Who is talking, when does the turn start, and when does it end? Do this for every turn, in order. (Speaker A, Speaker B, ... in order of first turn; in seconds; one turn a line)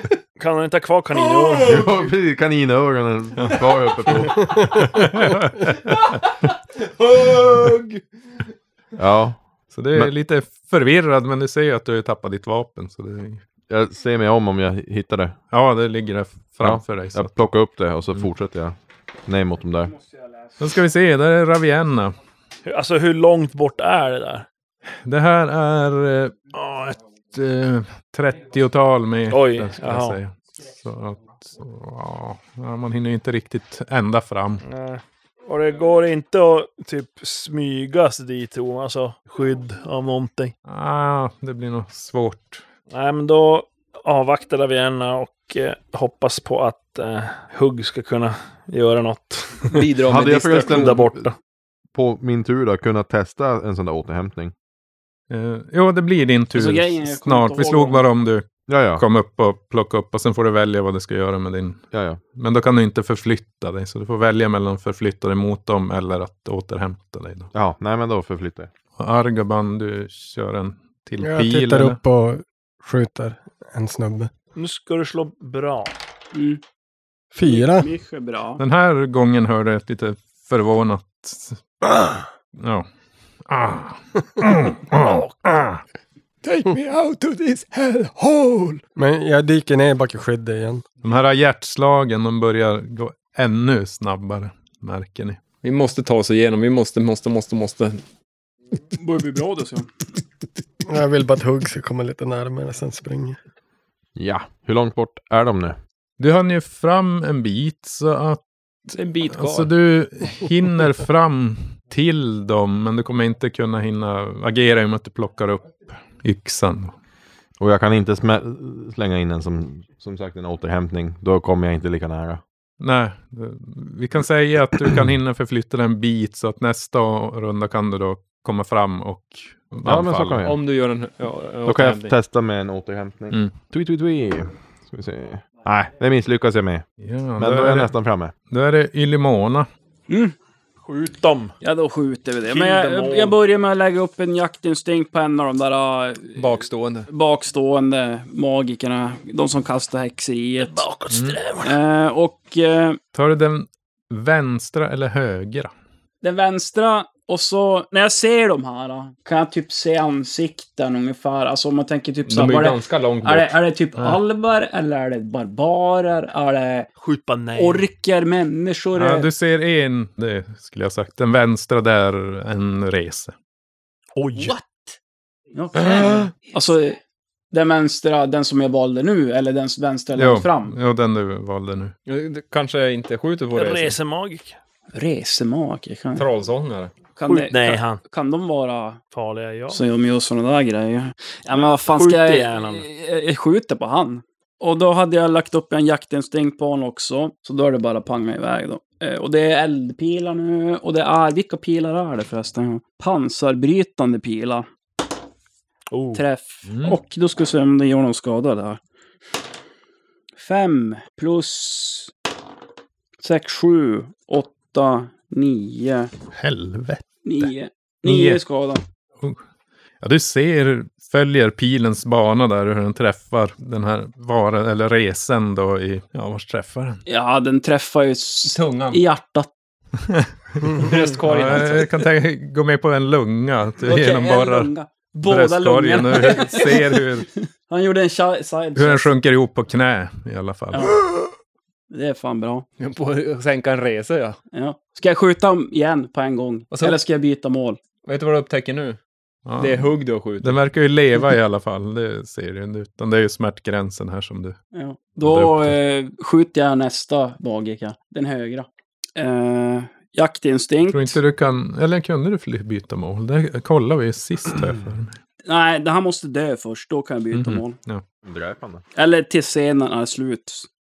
Speaker A: 0.4-1.8
Speaker B: 1.6-4.8
Speaker C: 3.4-6.2
Speaker D: 7.0-8.0
Speaker B: 9.0-9.4
Speaker C: 9.7-13.4
Speaker B: 13.7-15.4
Speaker C: 15.5-17.3
Speaker B: 16.6-18.8
Speaker B: 19.3-19.9
Speaker C: 20.6-22.2
Speaker A: 22.6-24.5
Speaker C: 25.1-34.6
Speaker A: 29.3-30.2
Speaker A: 34.6-40.5
Speaker C: 40.7-42.6
Speaker A: 42.9-49.9
Speaker D: 49.7-50.8
Speaker B: 50.1-51.3
Speaker A: 50.6-51.4
Speaker B: 51.9-54.5
Speaker C: 55.3-67.5
Speaker E: 56.5-58.0
Speaker B: 58.7-59.0
Speaker B: 61.9-62.2
Speaker B: 67.5-68.7
Speaker C: 69.0-72.0
Speaker F: 71.2-74.3
Speaker A: 74.5-75.9
Speaker E: 76.3-76.6
Speaker F: 77.3-77.9
Speaker E: 77.4-78.6
Speaker C: 78.6-81.9
Speaker C: 82.6-82.9
Speaker C: 83.5-85.8
Speaker A: 85.0-85.3
Speaker D: 86.4-88.8
Speaker F: 89.0-90.8
Speaker C: 91.0-95.4
Speaker D: 95.6-98.0
Speaker E: 99.0-99.9
Speaker F: 100.9-103.4
Speaker B: 104.2-105.8
Speaker C: 106.2-108.4
Speaker D: 108.9-109.7
Speaker C: 109.3-116.9
Speaker B: 117.6-122.4
Speaker C: 122.8-130.4
Speaker B: 129.8-130.6
Speaker D: 130.4-132.2
Speaker B: 131.7-136.8
Speaker C: 137.0-137.9
Speaker B: 137.4-138.3
Speaker C: 138.5-139.7
Speaker E: 140.1-140.3
Speaker A: 140.8-141.6
Speaker E: 141.6-150.9
Speaker A: 142.5-143.4
Speaker D: 146.4-147.1
Speaker A: 150.7-151.8
Speaker C: 151.1-151.4
Speaker E: 151.6-153.0
Speaker C: 153.1-155.7
Speaker E: 156.2-166.9
Speaker D: 162.3-163.5
Speaker A: 167.0-167.8
Speaker E: 167.6-169.3
Speaker C: 168.9-173.3
Speaker A: 174.2-174.6
Speaker E: 175.6-177.0
Speaker E: 177.5-180.8
Speaker C: 180.2-181.9
Speaker D: 182.1-184.0
Speaker A: 183.5-184.6
Speaker E: 184.9-186.3
Speaker D: 186.2-186.9
Speaker E: 187.2-189.0
Speaker A: 187.3-188.0
Speaker A: 189.1-189.8
Speaker E: 189.7-204.7
Speaker A: 191.8-192.9
Speaker A: 205.9-206.2
Speaker E: 206.1-208.8
Speaker C: 206.7-207.0
Speaker E: 210.4-212.1
Speaker E: 213.2-216.1
Speaker C: 216.3-217.5
Speaker E: 217.2-218.8
Speaker C: 218.1-218.4
Speaker C: 220.0-227.0
Speaker E: 227.1-229.5
Speaker D: 228.4-229.0
Speaker C: 230.1-230.7
Speaker D: 230.7-232.0
Speaker C: 231.2-234.7
Speaker E: 233.8-239.1
Speaker C: 235.2-237.3
Speaker C: 238.8-241.0
Speaker E: 240.7-241.0
Speaker E: 241.9-242.7
Speaker D: 242.8-244.4
Speaker E: 244.5-247.8
Speaker D: 246.7-247.0
Speaker D: 248.0-249.0
Speaker C: 249.5-254.6
Speaker D: 249.6-250.6
Speaker E: 254.7-261.2
Speaker C: 255.2-255.8
Speaker C: 260.9-265.2
Speaker E: 265.4-267.8
Speaker C: 267.3-268.0
Speaker B: 268.2-268.8
Speaker E: 268.9-270.7